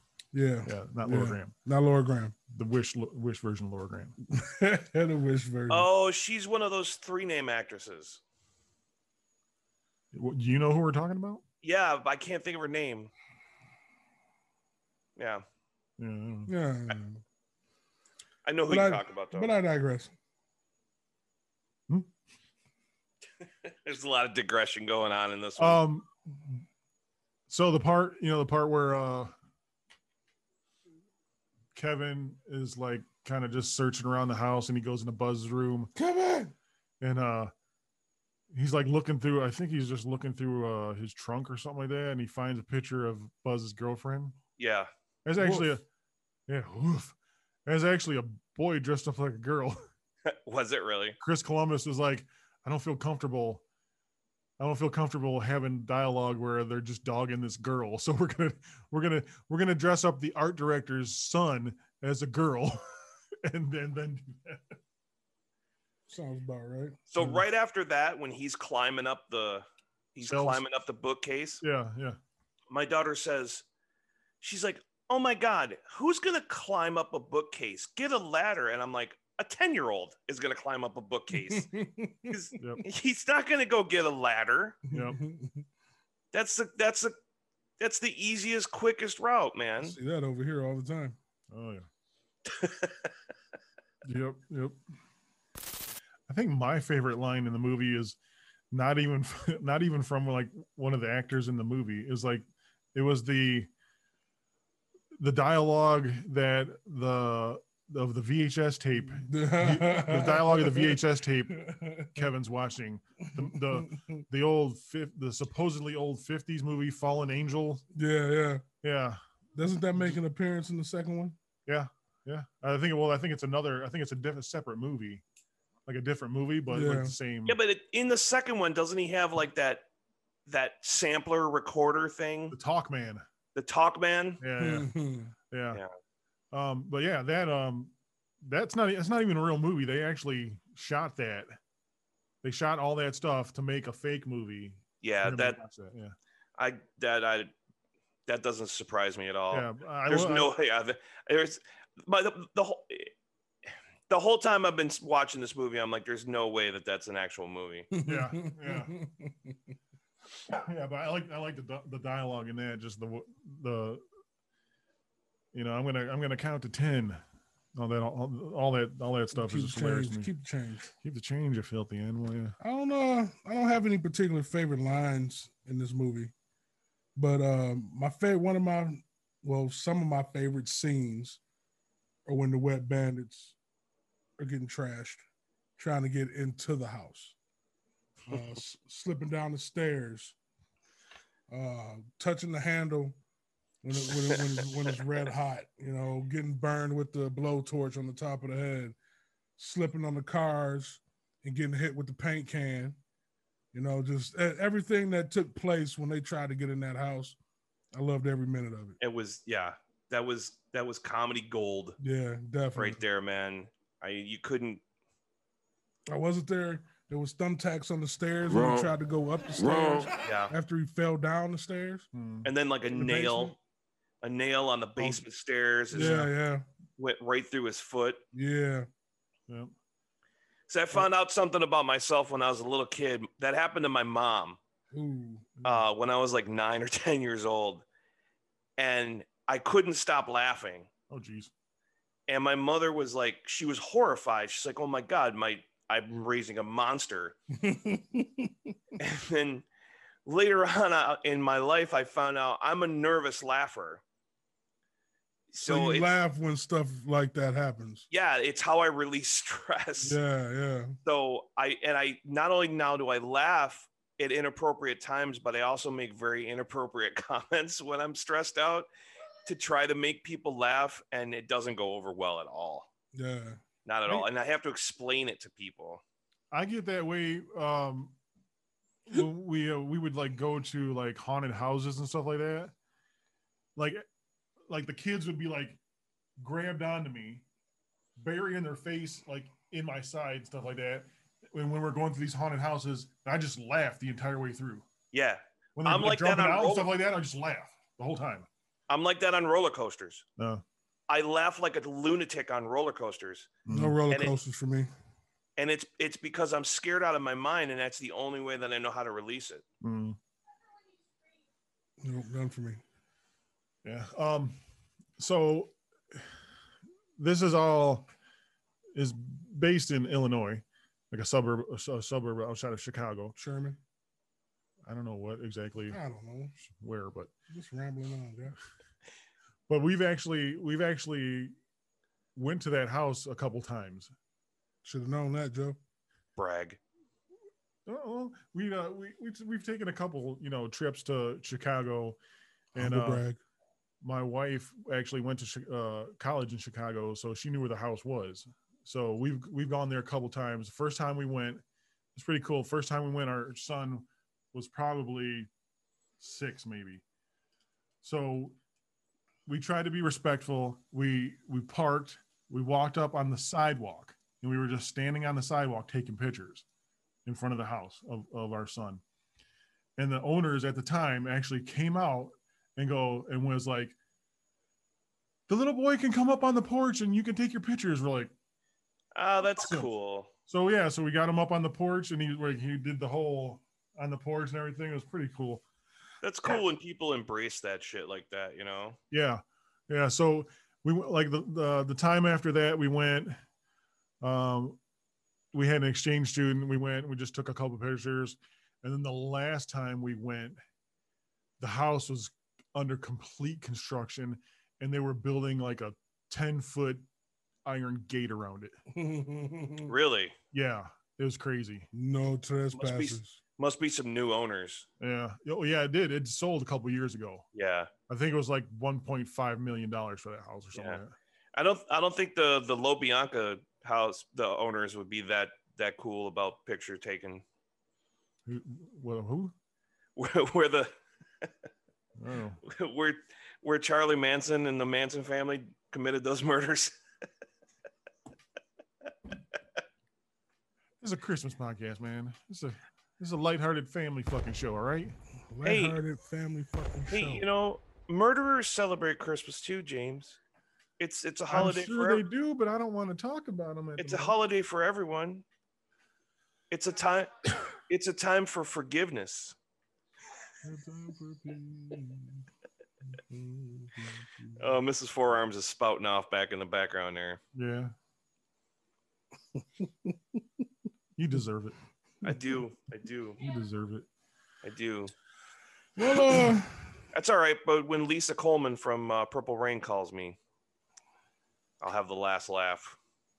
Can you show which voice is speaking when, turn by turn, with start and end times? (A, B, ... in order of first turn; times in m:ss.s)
0:00.3-0:02.4 A
0:00.6-0:01.5 B
0:02.5-0:04.2 B
0:04.3-0:05.9 A
0:05.7-0:08.2 C
0:10.1-0:11.4 B
0:11.6-0:13.1 C
0:15.2-0:15.4 C
0:16.0-0:16.5 B
0:16.5-0:17.2 A
0:18.4-0:19.6 C
0:18.7-0:20.1 A
0:23.6-0:25.8 C
0:25.6-0:26.1 B
0:27.5-0:29.3 B
0:31.7-0:35.9 B
0:35.9-0:36.5 A
0:37.0-0:37.5 B
0:38.5-0:44.4 B
0:44.6-0:44.9 C
0:45.2-0:45.8 B
0:45.4-0:45.7 A
0:46.5-0:47.1 B
0:47.6-0:49.8 B
0:50.2-0:51.2 C
0:51.2-0:53.6 B
0:54.6-1:04.8 B
1:06.1-1:07.0 A
1:07.1-1:11.6 C
1:07.2-1:07.4 B
1:10.2-1:10.6 B
1:11.6-1:12.2 B
1:12.7-1:13.6 C
1:14.4-1:21.7 C
1:21.3-1:22.4 A
1:22.3-1:24.8 C
1:22.6-1:22.8 B
1:24.9-1:25.6 A
1:24.9-1:25.2 B
1:26.3-1:27.1 C
1:27.8-1:30.0 C
1:29.8-1:31.2 A
1:31.5-1:31.9 B
1:32.5-1:32.9 C
1:34.0-1:34.8 B
1:36.3-1:38.2 B
1:38.7-1:43.7 B
1:45.2-1:57.8 B
1:49.1-1:52.2 A
1:53.4-1:54.2 A
1:57.9-1:58.6 A
1:58.8-1:59.2 B
1:59.5-2:01.4 A
2:01.6-2:05.2 B
2:05.8-2:07.6 B
2:06.7-2:07.1 A
2:07.4-2:09.8 C
2:10.4-2:12.5 C
2:12.5-2:13.2 B
2:13.5-2:14.4 C
2:14.4-2:14.9 B
2:14.6-2:15.3 A
2:15.5-2:15.8 B
2:16.5-2:21.6 B
2:22.4-2:26.1 B
2:25.0-2:25.6 C
2:26.6-2:27.5 C
2:28.3-2:33.1 C
2:29.5-2:30.5 B
2:34.1-2:37.9 C
2:37.9-2:39.6 A
2:38.0-2:39.0 B
2:40.5-2:44.0 B
2:45.5-2:47.2 B
2:47.7-2:50.3 B
2:49.3-2:50.9 A
2:51.0-2:52.6 B
2:52.6-2:56.3 A
2:57.2-3:01.4 A
3:02.2-3:03.6 A
3:04.4-3:05.2 A
3:05.8-3:07.4 A
3:08.3-3:10.4 A
3:11.5-3:13.2 A
3:13.8-3:19.0 A
3:19.6-3:23.0 A
3:23.7-3:27.4 A
3:27.9-3:29.0 A
3:29.0-3:32.0 C
3:32.0-3:33.0 A
3:32.7-3:34.8 C
3:36.1-3:42.1 A
3:40.2-3:40.5 C
3:42.1-3:42.5 B
3:42.4-3:43.5 C
3:42.9-3:43.6 A
3:44.2-3:46.3 C
3:45.0-3:45.2 A
3:45.9-3:46.6 A
3:45.9-3:46.3 B
3:47.0-3:48.2 C
3:48.3-3:48.9 A
3:50.7-3:54.6 C
3:54.9-3:55.5 A
3:55.6-3:55.8 B
3:55.6-3:57.8 C
3:58.8-4:00.9 C
4:01.1-4:01.5 B
4:02.3-4:07.4 C
4:07.5-4:08.8 A
4:09.0-4:09.6 C
4:10.2-4:14.0 C
4:15.5-4:16.1 C
4:15.6-4:18.0 A
4:18.1-4:20.2 C
4:20.0-4:21.0 A
4:21.0-4:28.9 C
4:29.4-4:32.9 C
4:33.1-4:33.6 A
4:33.8-4:36.0 C
4:36.5-4:38.2 B
4:39.1-4:42.7 B
4:43.8-4:44.0 B
4:44.7-4:45.8 B
4:46.4-4:47.4 B
4:48.2-4:54.8 B
4:55.1-4:56.9 C
4:55.8-4:58.5 B
4:58.9-5:00.2 C
5:00.4-5:00.6 B
5:01.1-5:03.6 C
5:03.6-5:04.0 B
5:03.7-5:04.9 A
5:04.1-5:04.4 C
5:05.6-5:09.6 C
5:09.8-5:10.2 B
5:12.0-5:12.8 A
5:13.8-5:14.6 B
5:15.2-5:16.2 B
5:17.2-5:18.1 B
5:18.9-5:23.4 B
5:23.4-5:23.8 A
5:24.8-5:26.0 B
5:25.9-5:26.6 A
5:26.6-5:27.3 B
5:27.5-5:28.6 A
5:29.7-5:31.5 B
5:32.3-5:34.1 B
5:34.8-5:35.8 A
5:36.4-5:36.8 C
5:37.8-5:42.2 B
5:42.7-5:43.4 A
5:42.7-5:43.2 B
5:44.0-5:51.6 B
5:52.1-5:55.5 B
5:56.2-5:57.0 B
5:58.0-5:58.6 B
5:59.5-6:06.6 B
6:07.2-6:09.0 B
6:10.0-6:14.0 B
6:15.5-6:18.3 B
6:19.1-6:20.3 C
6:19.6-6:19.9 B
6:20.5-6:25.6 B
6:26.2-6:29.0 C
6:29.1-6:33.4 B
6:34.2-6:34.8 B
6:35.5-6:40.6 B
6:41.6-6:47.0 B
6:47.6-6:48.8 B
6:48.9-6:49.9 A
6:49.8-6:50.4 C
6:50.5-6:51.9 B
6:51.9-6:53.4 A
6:52.7-6:54.9 C
6:55.0-6:57.4 B
6:57.5-6:57.9 C
6:58.1-7:01.1 B
7:00.7-7:01.0 C
7:01.5-7:07.4 C
7:08.4-7:09.5 B
7:10.2-7:10.9 C
7:12.2-7:12.6 B
7:12.6-7:17.0 C
7:21.0-7:25.2 B
7:25.5-7:27.4 A
7:25.6-7:26.0 C
7:27.1-7:30.4 C
7:31.0-7:32.2 C
7:31.5-7:34.4 B
7:34.0-7:35.4 C
7:36.7-7:39.6 C
7:40.6-7:41.3 B
7:40.7-7:42.4 A
7:43.3-7:44.7 A
7:44.6-7:47.4 C
7:47.5-7:47.9 B
7:49.8-7:50.1 A
7:51.2-7:51.8 B
7:52.2-7:53.4 C
7:53.4-7:54.0 B
7:54.6-7:55.1 C
7:56.0-7:56.9 A
7:57.1-8:00.4 C
8:01.8-8:03.0 C